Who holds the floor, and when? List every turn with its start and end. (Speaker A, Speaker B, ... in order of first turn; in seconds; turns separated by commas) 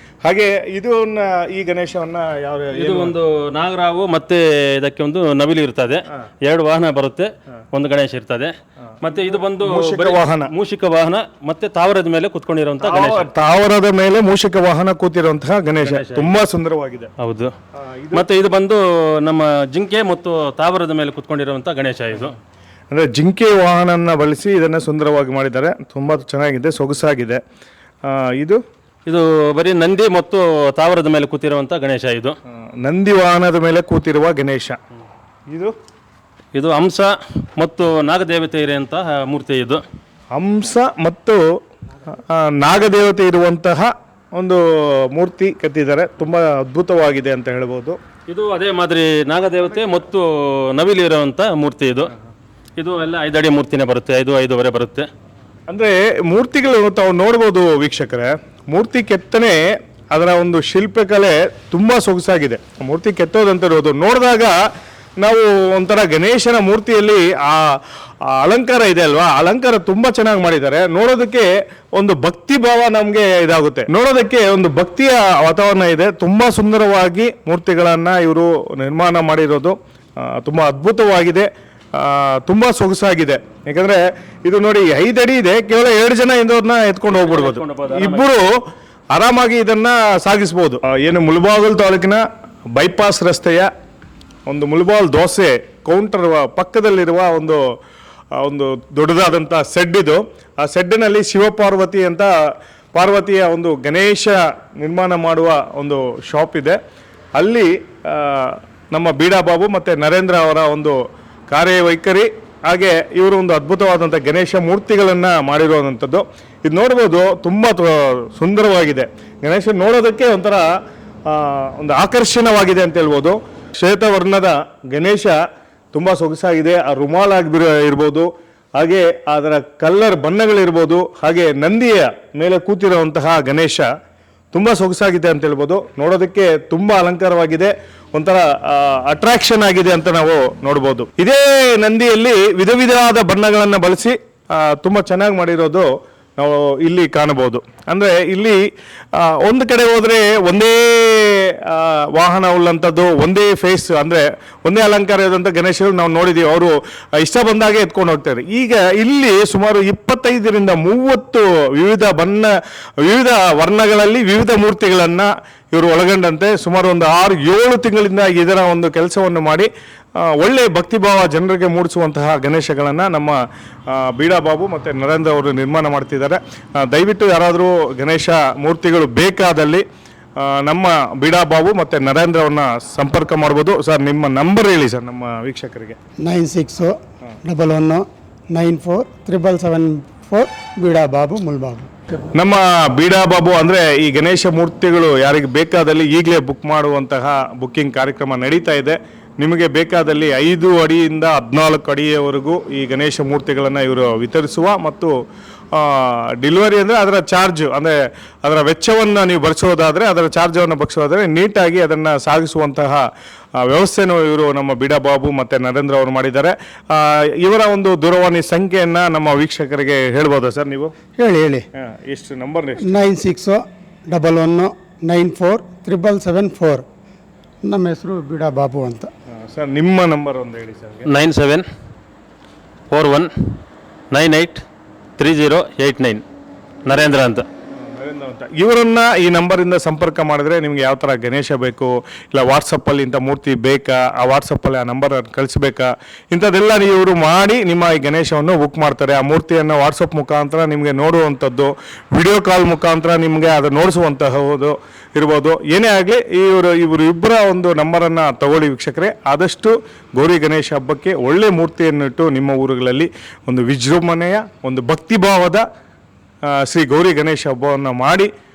Speaker A: 0.2-3.1, Speaker B: 2.7-13.3, Speaker A: 9.2-10.5, Speaker A: 12.8-17.1, Speaker B: 15.8-16.4, Speaker B: 17.2-17.5, Speaker A: 17.8-18.2, Speaker B: 18.1-22.4, Speaker A: 22.9-27.4, Speaker A: 28.0-28.6, Speaker B: 29.1-32.3, Speaker A: 32.8-34.8, Speaker B: 36.5-39.8, Speaker A: 40.3-41.4, Speaker A: 42.1-48.0, Speaker B: 48.3-52.1, Speaker B: 52.8-55.1, Speaker A: 55.7-59.6, Speaker A: 60.1-64.5, Speaker A: 65.2-88.5, Speaker B: 87.1-88.3, Speaker A: 89.1-93.7, Speaker A: 94.5-97.6, Speaker A: 98.3-102.3, Speaker A: 102.9-106.8, Speaker A: 107.3-111.0, Speaker A: 111.5-120.6, Speaker A: 121.3-125.3, Speaker A: 125.9-133.8, Speaker A: 134.5-148.6, Speaker A: 149.1-173.4, Speaker A: 173.9-179.8, Speaker A: 180.4-186.0, Speaker C: 186.2-192.3, Speaker A: 192.4-205.1, Speaker A: 205.7-213.0, Speaker A: 213.6-220.9, Speaker C: 221.2-221.7, Speaker A: 221.8-223.1, Speaker C: 222.8-226.8, Speaker C: 227.6-229.1, Speaker A: 229.5-231.1, Speaker B: 231.1-231.6, Speaker B: 232.9-233.6, Speaker B: 234.1-234.6, Speaker B: 235.2-236.2, Speaker B: 236.9-237.4, Speaker A: 237.8-265.6, Speaker A: 266.5-268.3